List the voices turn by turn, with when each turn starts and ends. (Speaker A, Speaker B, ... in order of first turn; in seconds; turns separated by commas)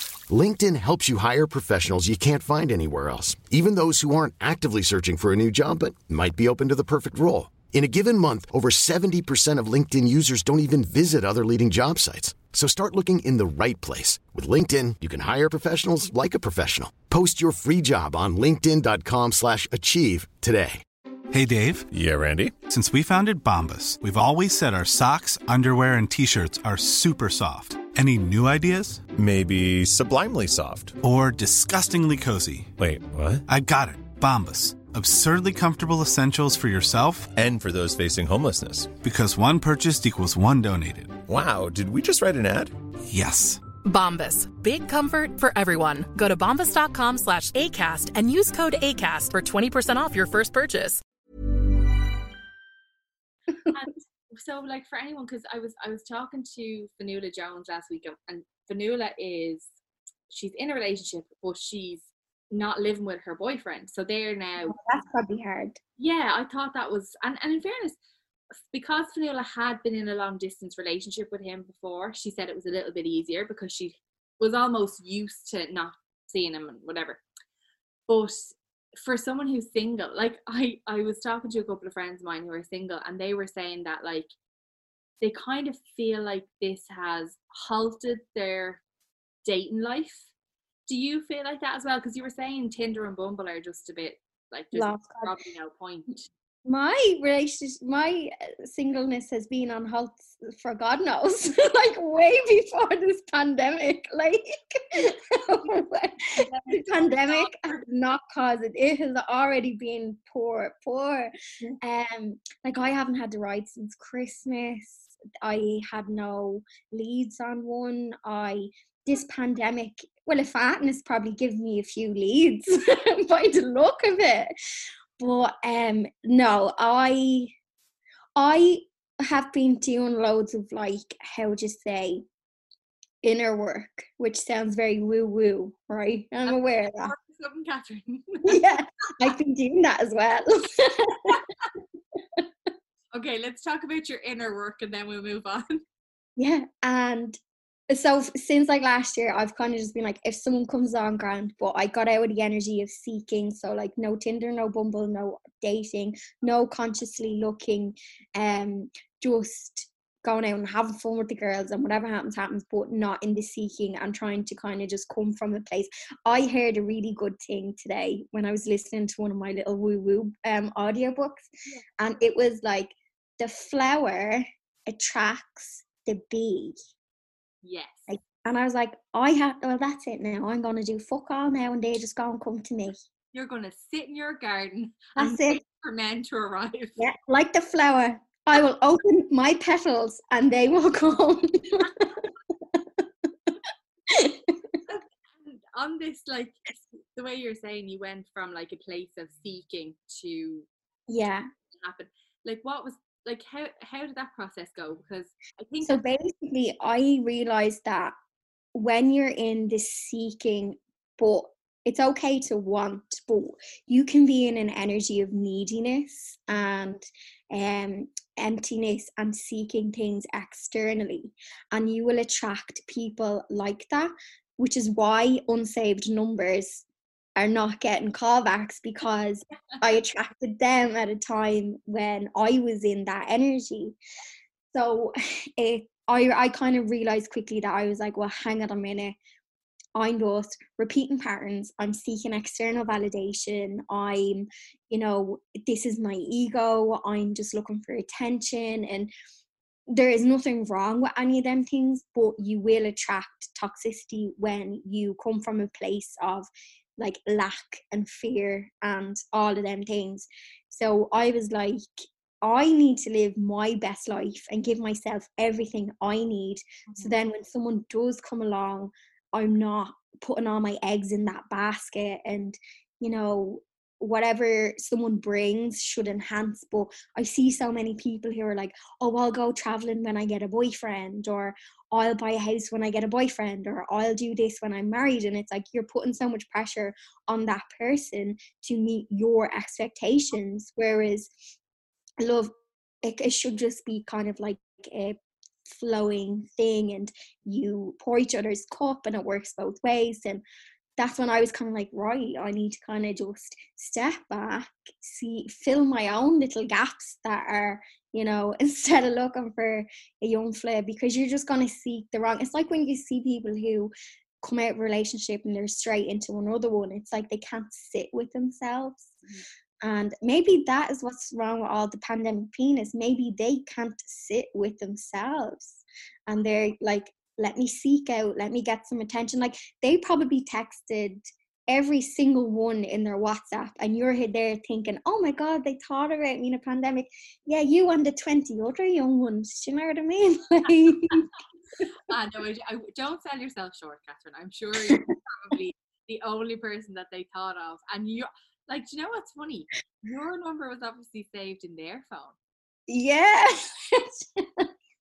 Speaker A: 0.3-20.8, Speaker B: 21.3-21.9, Speaker C: 21.9-22.5, Speaker B: 22.7-29.0, Speaker C: 29.1-31.0, Speaker B: 31.0-32.7, Speaker C: 32.8-33.4, Speaker B: 33.5-37.3, Speaker C: 37.3-39.0, Speaker B: 39.0-41.2, Speaker C: 41.3-42.7, Speaker B: 43.1-43.6, Speaker D: 43.9-51.0, Speaker E: 53.7-59.7, Speaker E: 60.3-64.8, Speaker F: 64.6-65.8, Speaker E: 66.0-68.0, Speaker E: 68.7-77.2, Speaker E: 78.1-84.3, Speaker E: 85.2-88.8, Speaker E: 89.5-90.3, Speaker E: 90.9-96.3, Speaker F: 94.7-95.4, Speaker F: 96.7-124.5, Speaker E: 106.3-107.8, Speaker F: 125.2-127.5, Speaker F: 128.4-132.2, Speaker F: 133.2-137.1, Speaker E: 136.5-138.6, Speaker F: 138.4-141.4, Speaker E: 143.1-145.8, Speaker F: 146.4-147.4, Speaker F: 147.9-176.8, Speaker E: 177.6-178.1, Speaker F: 178.1-183.0, Speaker E: 183.3-187.0, Speaker F: 185.2-185.6, Speaker F: 187.0-193.0, Speaker F: 194.1-194.7, Speaker E: 194.9-200.7, Speaker F: 201.1-201.5, Speaker E: 201.7-206.0, Speaker F: 205.8-208.2, Speaker F: 208.7-226.8, Speaker F: 227.4-234.0, Speaker F: 234.7-239.2, Speaker F: 239.9-249.1, Speaker F: 249.9-291.3, Speaker E: 266.9-267.2, Speaker F: 292.2-300.4, Speaker F: 301.0-319.1, Speaker F: 319.8-341.3, Speaker E: 342.1-352.4, Speaker F: 344.8-345.1, Speaker F: 352.9-354.7